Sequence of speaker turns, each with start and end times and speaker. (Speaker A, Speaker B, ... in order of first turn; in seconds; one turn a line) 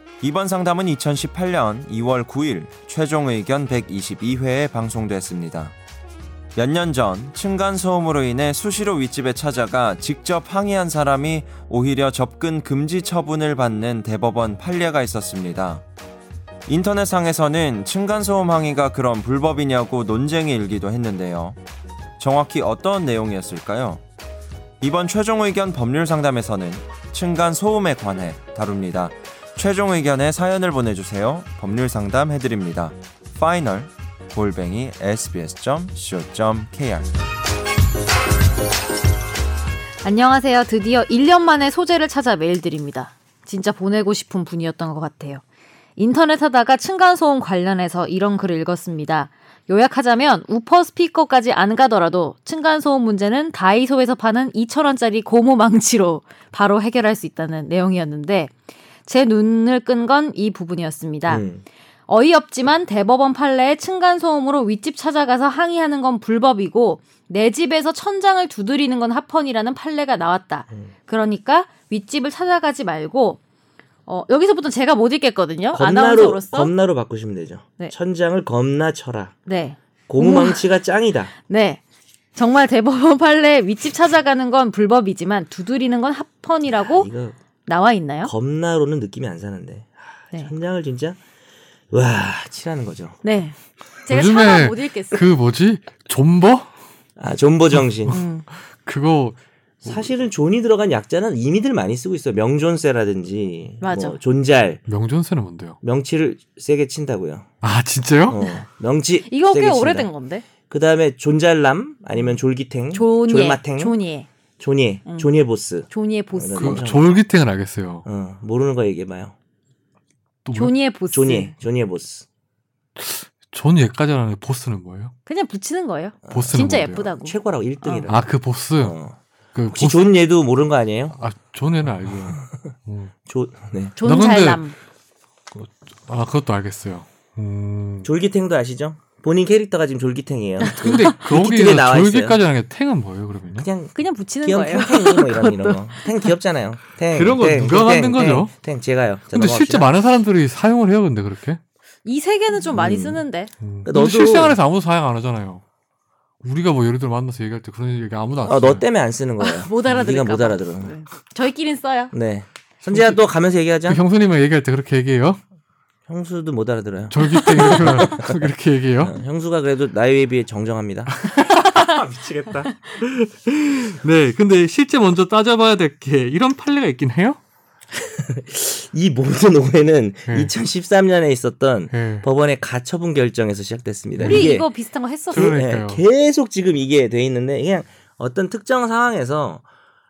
Speaker A: 0.2-5.7
Speaker A: 6.5-15.8
Speaker A: 16.6-21.6
Speaker A: 22.2-24.0
Speaker A: 24.8-37.1
Speaker B: 40.0-45.4
Speaker B: 46.0-58.5
Speaker B: 59.0-61.4
Speaker C: 61.3-61.6
Speaker B: 62.1-73.4
Speaker B: 74.1-76.7
Speaker C: 75.7-79.3
Speaker B: 79.5-80.7
Speaker C: 80.1-81.3
Speaker B: 81.4-81.8
Speaker B: 82.3-87.1
Speaker C: 86.8-87.3
Speaker B: 87.7-88.3
Speaker C: 88.2-91.2
Speaker C: 91.9-93.2
Speaker B: 93.2-95.3
Speaker D: 94.1-96.7
Speaker C: 97.2-98.2
Speaker D: 97.7-100.0
Speaker B: 98.1-98.5
Speaker C: 99.8-104.8
Speaker B: 103.8-104.2
Speaker D: 104.8-105.8
Speaker C: 105.8-107.5
Speaker D: 107.6-108.4
Speaker C: 108.3-110.1
Speaker B: 109.2-110.4
Speaker C: 110.6-114.0
Speaker B: 112.9-114.3
Speaker C: 114.6-117.2
Speaker B: 115.0-115.3
Speaker B: 115.8-116.9
Speaker D: 116.5-118.0
Speaker C: 118.0-119.3
Speaker D: 120.4-120.7
Speaker B: 120.5-121.5
Speaker C: 121.1-122.2
Speaker D: 123.0-125.1
Speaker B: 125.2-128.1
Speaker C: 126.2-131.2
Speaker D: 126.3-127.0
Speaker D: 128.0-128.9
Speaker D: 129.5-130.1
Speaker D: 131.1-133.1
Speaker C: 133.3-134.0
Speaker B: 134.0-134.7
Speaker D: 134.0-134.6
Speaker D: 135.5-138.1
Speaker C: 138.0-142.4
Speaker B: 140.6-141.1
Speaker D: 140.7-143.7
Speaker C: 143.5-149.9
Speaker B: 143.9-146.3
Speaker D: 147.1-148.5
Speaker D: 149.3-151.6
Speaker B: 152.0-153.5
Speaker C: 152.6-153.2
Speaker D: 153.6-155.6
Speaker C: 153.8-154.6
Speaker D: 156.4-158.8
Speaker C: 158.4-160.9
Speaker B: 159.4-162.1
Speaker C: 162.1-164.0
Speaker D: 162.8-163.2
Speaker D: 163.9-165.4
Speaker C: 166.1-168.4
Speaker D: 167.1-169.1
Speaker C: 169.0-171.2
Speaker D: 171.2-172.0
Speaker C: 171.8-172.7
Speaker D: 172.8-177.4
Speaker C: 177.9-184.7
Speaker D: 180.3-180.5
Speaker D: 181.9-182.3
Speaker D: 184.1-184.5
Speaker B: 184.2-185.5
Speaker D: 185.3-186.0
Speaker C: 185.3-189.6